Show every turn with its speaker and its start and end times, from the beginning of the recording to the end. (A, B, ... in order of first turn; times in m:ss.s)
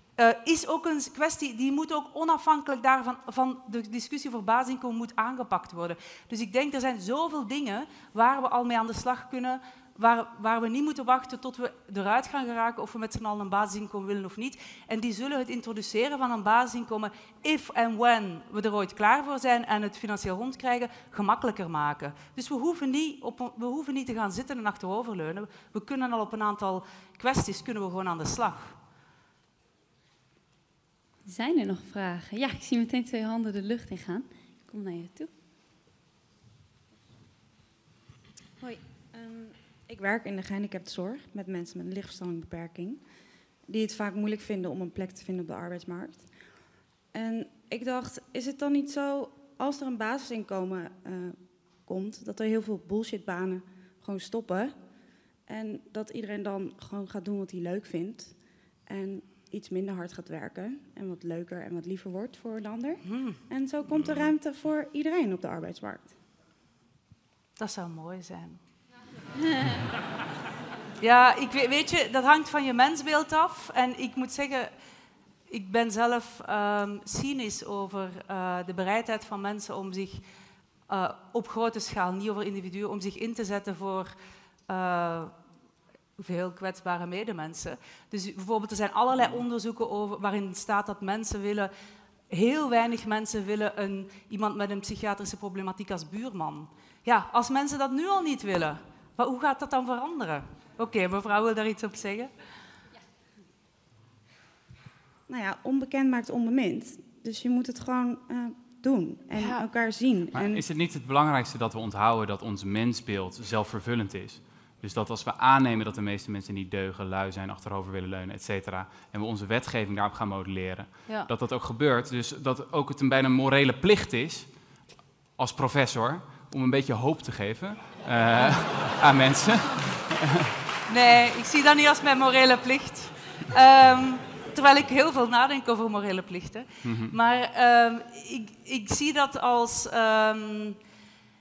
0:00.2-0:28.8 A
0:31.3-0:35.3 B
0:39.1-0:43.0 C
0:43.7-0:46.3 C
0:47.1-0:51.4 C
0:51.9-0:54.8 C
0:55.5-0:58.3 C
0:58.9-1:06.1 C
1:03.1-1:03.4 A
1:07.6-1:08.6 A
1:11.0-1:14.7 A
1:15.5-1:20.2 A
1:20.9-1:24.1 A
1:24.7-1:25.3 A
1:26.2-1:31.7 A
1:32.3-1:42.3 A
1:45.3-1:50.7 C
1:49.4-1:49.6 A
1:50.3-2:04.5 D
2:05.4-2:10.5 D
2:10.9-2:20.8 A
2:16.8-2:17.1 D